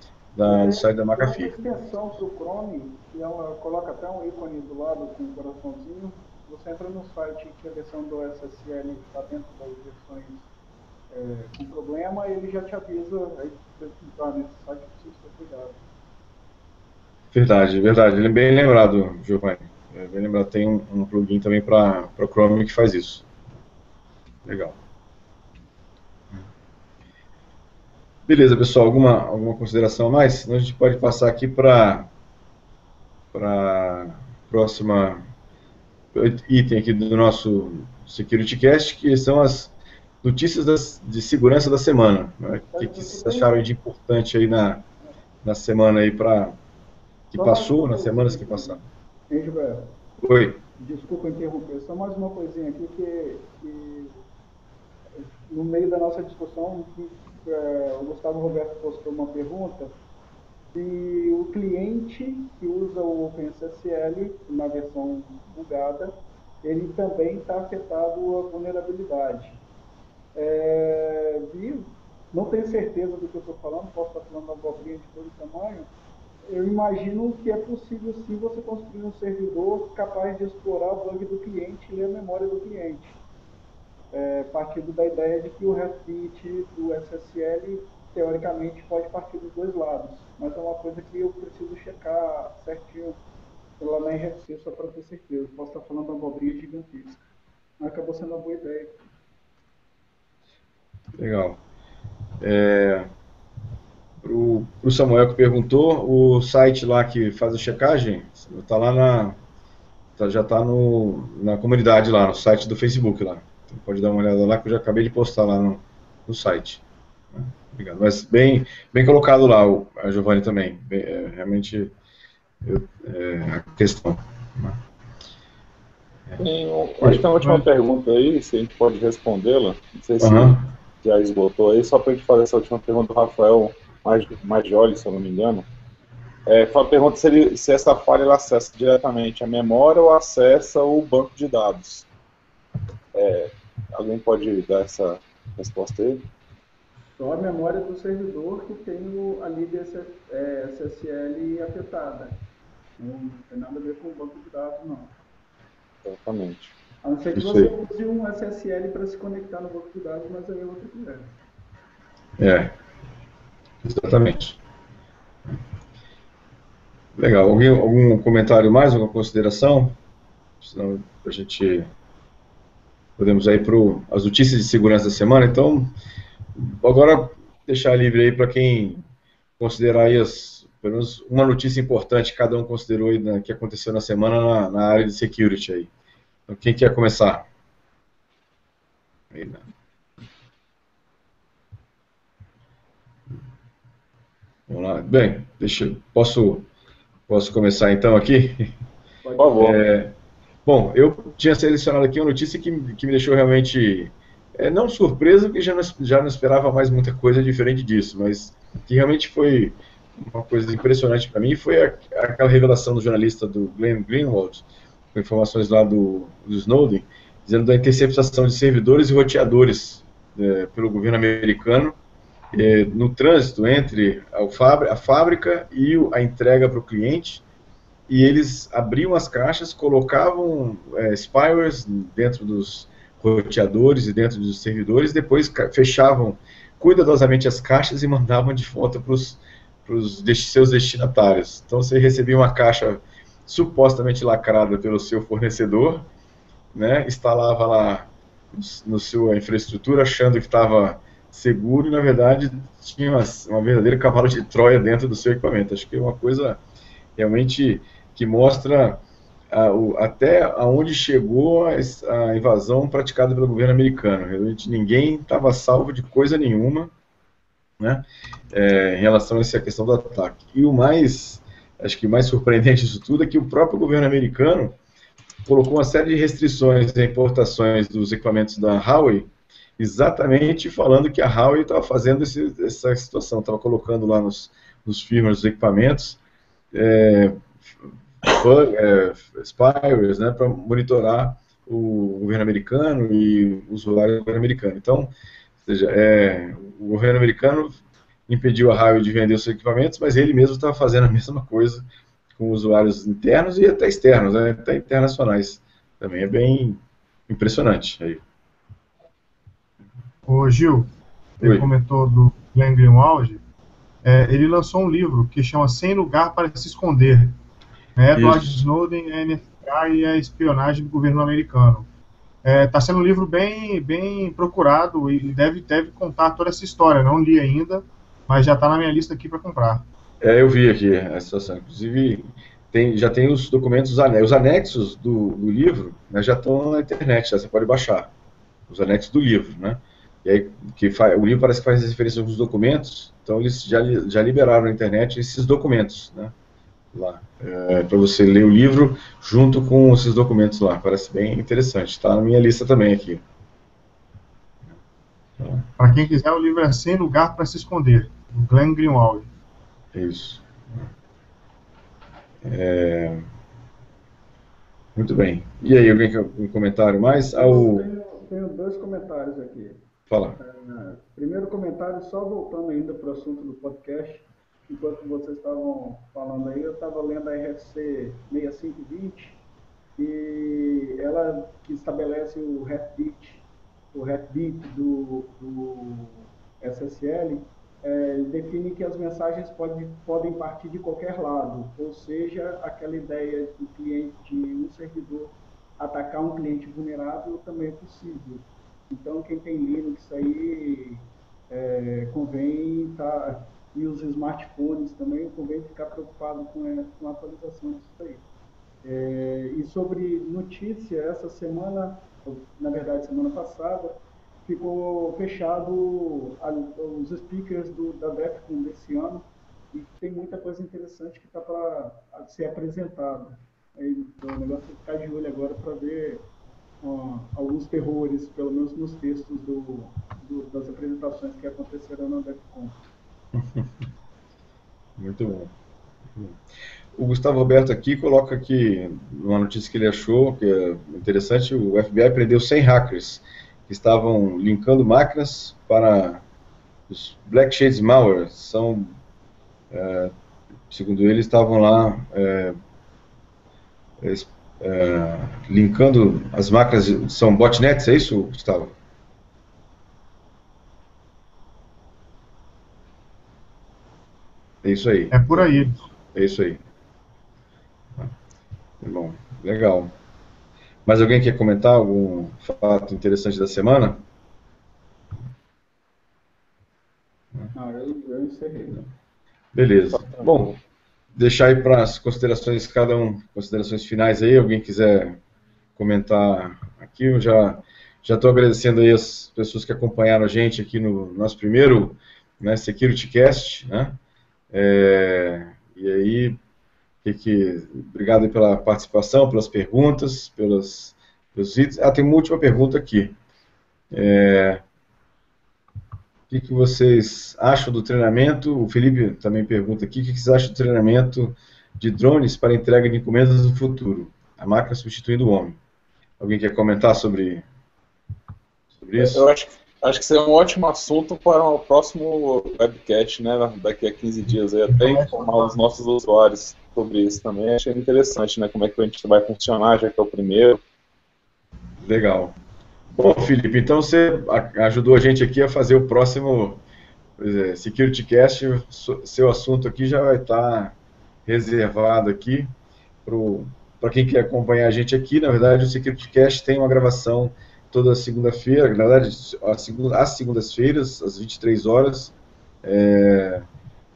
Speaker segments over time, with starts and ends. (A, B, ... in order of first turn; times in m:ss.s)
0:00.3-0:01.6 A
0:00.4-0:10.4 B
0:11.1-0:15.8 B
0:17.3-0:23.2 A
0:24.4-0:24.8 A
0:28.2-0:32.1 A
0:33.3-0:35.2 A
0:36.1-0:44.8 A
0:42.7-0:43.5 B
0:45.4-0:46.6 A
0:47.3-0:48.8 A
0:47.3-0:49.9 B
0:50.2-0:50.6 A
0:50.8-0:54.2 B
0:55.2-0:59.9 B
1:00.7-1:09.6 B
1:10.3-1:15.9 B
1:16.4-1:23.2 B
1:24.1-1:33.2 B
1:33.8-1:37.2 B
1:37.8-1:39.0 B
1:41.2-1:41.6 A
1:42.4-1:43.1 A
1:44.2-1:49.4 A
1:50.2-1:56.8 A
1:57.3-2:01.9 A
2:02.6-2:04.8 A
2:06.4-2:15.6 C
2:07.0-2:07.6 A
2:10.2-2:10.7 A
2:16.4-2:22.1 C
2:23.1-2:26.2 C
2:27.1-2:32.4 B
2:33.0-2:35.1 B
2:36.0-2:36.7 C
2:37.0-2:41.3 B
2:37.3-2:37.7 A
2:42.4-2:42.7 A
2:43.8-2:44.6 A
2:47.2-2:50.0 A
2:50.6-2:51.9 A
2:53.2-2:55.9 A
2:56.6-2:59.0 A
2:59.6-3:05.9 A
3:06.5-3:07.4 A
3:09.3-3:09.6 A
3:14.7-3:16.7 A
3:17.3-3:18.7 A
3:19.2-3:19.7 B
3:19.4-3:19.8 C
3:19.6-3:42.0 A
3:42.5-3:47.4 A
3:48.1-4:06.1 A
4:06.7-4:16.6 A
4:17.2-4:26.9 A
4:27.8-4:34.8 A
4:35.4-4:46.2 A
4:46.7-4:47.6 A
4:48.2-4:55.1 A
4:55.6-5:01.8 A
5:02.4-5:08.2 A
5:10.2-5:10.9 D
5:11.4-5:13.4 D
5:11.4-5:11.7 A
5:14.0-5:17.4 D
5:18.0-5:21.8 D
5:18.1-5:18.5 A
5:22.4-5:29.8 D
5:30.2-5:38.1 A
5:38.7-5:46.3 A
5:46.9-5:53.2 A
5:55.4-5:55.7 A
5:55.8-5:59.3 D
5:59.9-6:00.8 A
6:02.4-6:03.2 A
6:05.0-6:07.8 A
6:07.2-6:09.8 B
6:10.1-6:10.4 A
6:10.4-6:19.4 B
6:20.0-6:48.2 B
6:48.8-7:06.3 B
7:06.8-7:12.8 B
7:13.3-7:13.7 A
7:15.0-7:15.5 A
7:17.0-7:26.2 A
7:26.9-7:29.0 A
7:29.7-7:30.1 A
7:30.7-7:32.6 A
7:34.0-7:38.7 A
7:44.6-7:46.6 A
7:45.1-7:45.8 D
7:48.8-7:49.9 A
7:50.8-7:54.0 A
7:57.5-7:58.8 B
7:59.5-8:00.5 A
7:59.9-8:00.6 C
8:01.1-8:05.2 A
8:05.8-8:14.0 A
8:14.5-8:16.4 A
8:17.0-8:23.1 A
8:23.9-8:24.6 A
8:26.3-8:35.6 A
8:36.2-8:37.4 A
8:38.8-8:39.2 A
8:39.0-8:50.6 C
8:44.7-8:45.5 D
8:51.8-8:52.3 A
8:52.9-8:56.6 A
8:57.2-9:02.5 A
9:03.0-9:13.4 A